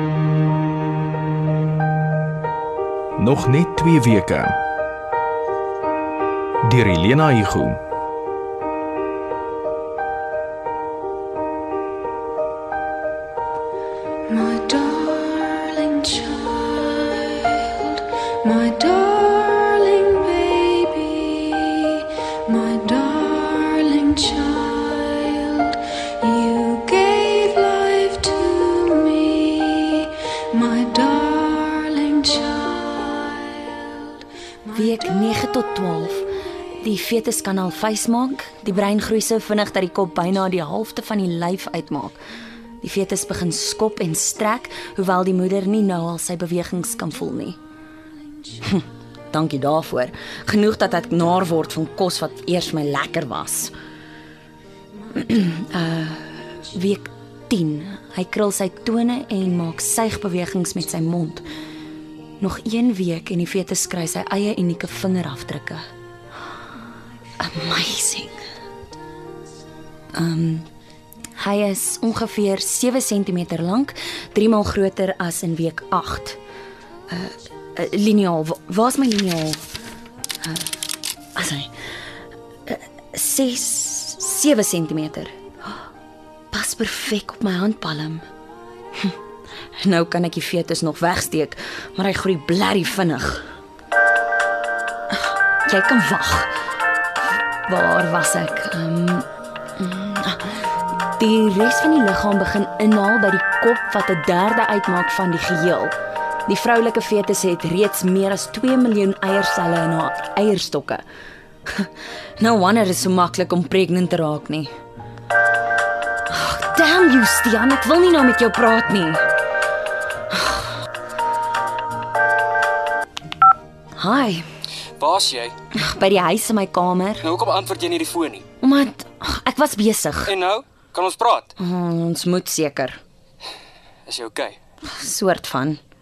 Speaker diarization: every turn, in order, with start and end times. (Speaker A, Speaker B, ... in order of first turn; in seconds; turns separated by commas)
Speaker A: 3.2-4.5, Speaker A: 6.6-7.8, Speaker B: 14.3-16.8, Speaker B: 18.5-19.4, Speaker B: 19.9-21.2, Speaker B: 22.5-33.5, Speaker C: 34.7-36.3, Speaker C: 36.8-42.2, Speaker C: 42.8-47.6, Speaker C: 48.6-53.7, Speaker C: 55.1-61.4, Speaker C: 62.4-65.8, Speaker C: 67.4-68.4, Speaker C: 70.1-70.7, Speaker C: 71.4-76.4, Speaker C: 77.1-79.6, Speaker C: 81.4-81.7, Speaker C: 82.7-85.3, Speaker C: 86.5-88.2, Speaker C: 89.8-93.5, Speaker C: 95.1-96.5, Speaker C: 97.7-99.3, Speaker C: 99.8-106.0, Speaker C: 106.5-111.0, Speaker C: 111.7-114.7, Speaker C: 116.3-119.2, Speaker C: 124.0-124.5, Speaker D: 125.0-125.5, Speaker C: 125.7-127.2, Speaker D: 127.2-128.4, Speaker C: 128.6-130.3, Speaker D: 130.2-131.5, Speaker C: 131.6-133.0, Speaker D: 134.1-134.6, Speaker C: 134.8-135.8